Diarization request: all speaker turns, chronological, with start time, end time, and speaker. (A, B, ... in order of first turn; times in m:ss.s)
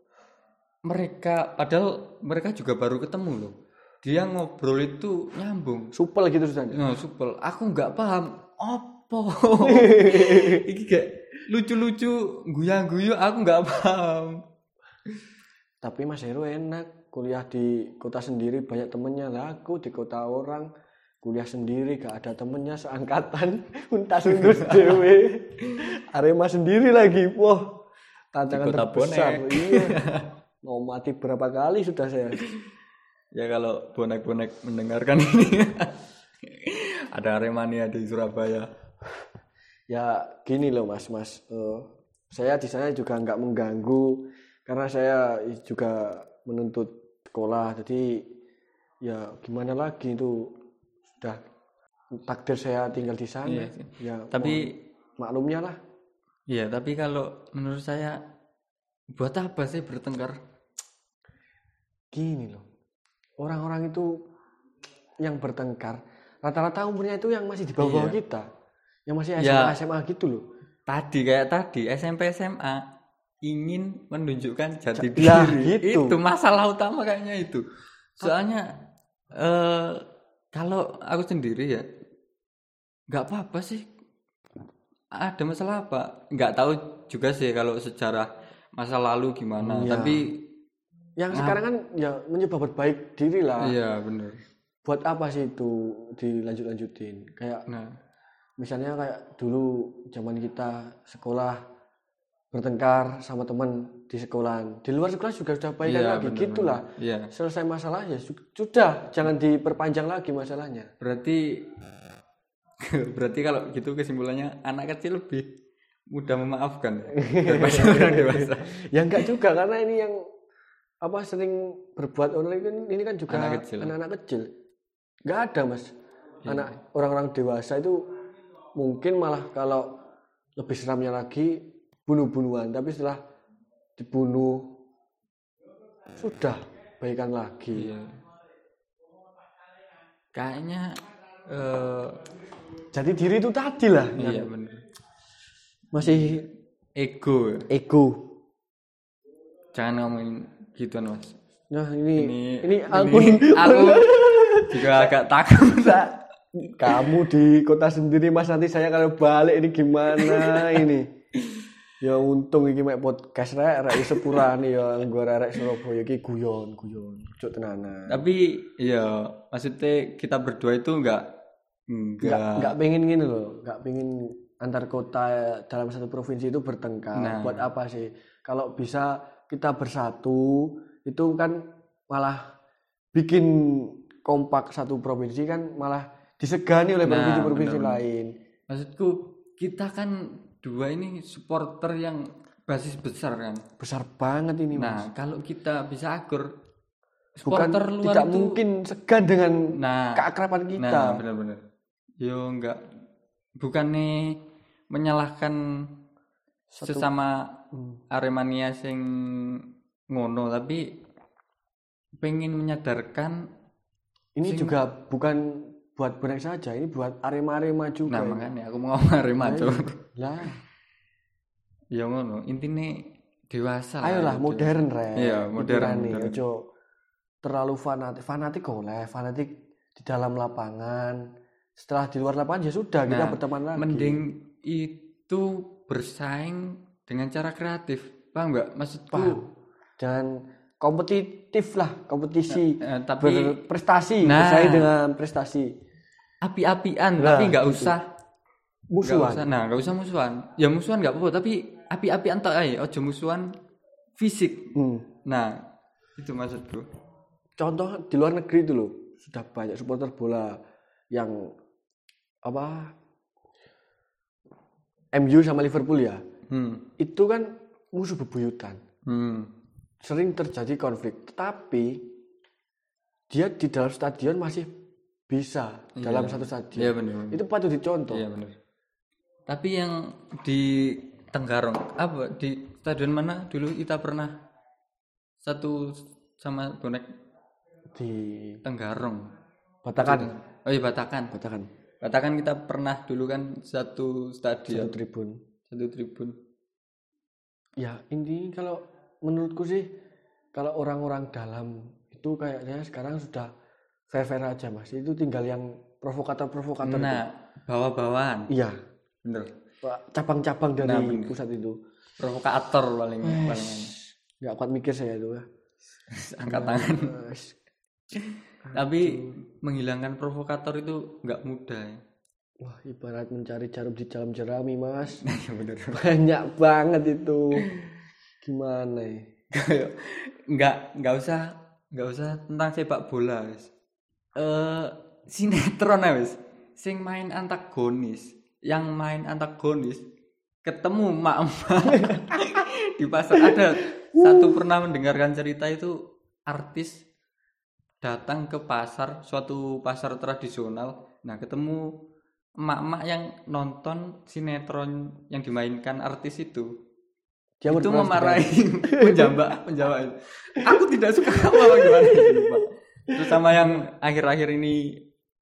0:00.8-0:05.9 A
0:05.9-0:06.8 B
0:06.7-0:14.4 A
0:09.7-0:10.6 B
0:15.8-0:20.7 B
0:21.2-0:27.6 B
0:24.3-0:25.0 A
0:28.3-0:30.0 B
0:28.5-0:30.3 A
0:30.6-0:32.4 B
0:33.3-0:35.9 A
0:36.4-0:38.7 A
0:39.9-0:48.2 B
0:49.0-0:50.5 B
0:52.2-0:55.8 B
0:53.5-0:54.7 A
0:56.5-0:58.2 A
0:59.1-1:00.4 A
1:02.1-1:02.6 B
1:03.4-1:04.2 B
1:05.2-1:08.4 B
1:07.8-1:08.2 A
1:09.1-1:10.4 B
1:09.4-1:09.8 A
1:10.9-1:12.8 A
1:13.4-1:17.6 A
1:15.0-1:16.2 B
1:18.2-1:18.6 A
1:19.3-1:21.8 A
1:23.1-1:23.8 A
1:25.2-1:30.4 A
1:29.6-1:30.2 B
1:31.2-1:33.7 B
1:31.3-1:31.6 A
1:33.6-1:34.4 A
1:34.8-1:37.6 B
1:37.7-1:38.0 A
1:38.6-1:41.6 B
1:42.5-1:50.9 B
1:45.8-1:47.3 A
1:51.0-1:51.6 A
1:52.9-1:55.5 A
1:56.1-1:59.3 A
1:57.2-2:00.2 B
2:01.0-2:04.5 B
2:03.3-2:03.9 A
2:05.3-2:05.9 B
2:06.4-2:06.7 A
2:06.4-2:08.0 B
2:08.8-2:09.9 B
2:10.6-2:13.2 B
2:14.0-2:14.7 B
2:16.2-2:17.9 B
2:17.7-2:18.2 A
2:20.3-2:20.9 A
2:21.5-2:22.2 A
2:22.9-2:24.5 B
2:24.2-2:24.8 A
2:25.9-2:26.4 B
2:26.0-2:26.4 A
2:27.0-2:27.6 A
2:27.7-2:28.2 B
2:29.7-2:31.4 A
2:31.7-2:41.1 B
2:32.2-2:36.2 A
2:36.7-2:37.2 A
2:40.2-2:40.8 A
2:42.0-2:48.2 B
2:48.1-2:51.3 A
2:51.9-2:52.8 A
2:52.2-3:02.4 B
2:57.2-2:57.6 A
3:03.1-3:08.3 B
3:07.0-3:08.0 A
3:08.7-3:13.6 A
3:13.8-3:15.1 B
3:14.7-3:16.5 A
3:17.4-3:18.6 A
3:17.4-3:21.2 B
3:19.8-3:20.2 A
3:20.8-3:21.6 A
3:22.2-3:22.8 A
3:23.6-3:24.4 A
3:24.9-3:25.6 A
3:26.7-3:27.1 B
3:26.8-3:27.5 A
3:27.7-3:28.0 B
3:28.1-3:30.8 A
3:32.2-3:33.4 A
3:34.4-3:38.5 B
3:34.4-3:34.8 A
3:38.1-3:40.0 A
3:39.4-3:40.6 B
3:41.9-3:43.0 A
3:43.5-3:46.4 A
3:44.0-3:46.6 B
3:47.4-3:51.2 B
3:51.8-3:54.2 B
3:53.1-3:59.4 A
3:59.1-4:05.7 B
4:02.5-4:03.6 A
4:04.2-4:04.9 A
4:06.4-4:08.0 A
4:07.2-4:07.9 B
4:08.9-4:09.5 B
4:09.0-4:13.5 A
4:14.2-4:14.7 A
4:14.7-4:15.0 B
4:15.2-4:15.6 A
4:16.2-4:16.8 A
4:17.6-4:20.6 B
4:21.1-4:21.4 B
4:22.4-4:22.9 B
4:25.1-4:26.2 B
4:26.5-4:26.8 A
4:27.0-4:28.8 B
4:29.1-4:29.5 A
4:30.0-4:32.0 B
4:33.3-4:34.7 B
4:35.3-4:38.2 B
4:36.0-4:37.4 A
4:38.1-4:38.5 A
4:39.5-4:44.4 A
4:45.4-4:47.1 A
4:47.9-4:48.6 B
4:48.6-4:49.3 A
4:49.8-4:50.3 B
4:50.0-4:51.3 A
4:51.3-4:51.7 B
4:52.0-4:54.9 A
4:54.7-4:55.4 B
4:55.7-4:56.3 A
4:57.8-4:59.9 B
5:00.5-5:03.5 B
5:04.1-5:07.2 B
5:06.8-5:08.5 A
5:08.5-5:08.8 B
5:09.2-5:09.5 A
5:09.8-5:11.8 B
5:10.8-5:11.3 A
5:12.2-5:13.9 A
5:13.2-5:15.4 B
5:16.1-5:17.1 A
5:16.4-5:17.6 B
5:18.1-5:21.9 A
5:18.6-5:19.3 B
5:22.6-5:25.2 B
5:25.2-5:26.0 A
5:25.9-5:27.6 B
5:27.6-5:27.8 A
5:28.4-5:29.2 B
5:29.5-5:33.7 A
5:34.3-5:40.0 A
5:40.6-5:47.0 A
5:42.1-5:42.4 B
5:44.2-5:44.6 B
5:48.0-5:51.9 A
5:52.6-5:56.7 A
5:57.6-5:59.4 B
5:57.7-6:05.0 A
6:01.3-6:02.5 B
6:03.2-6:03.8 B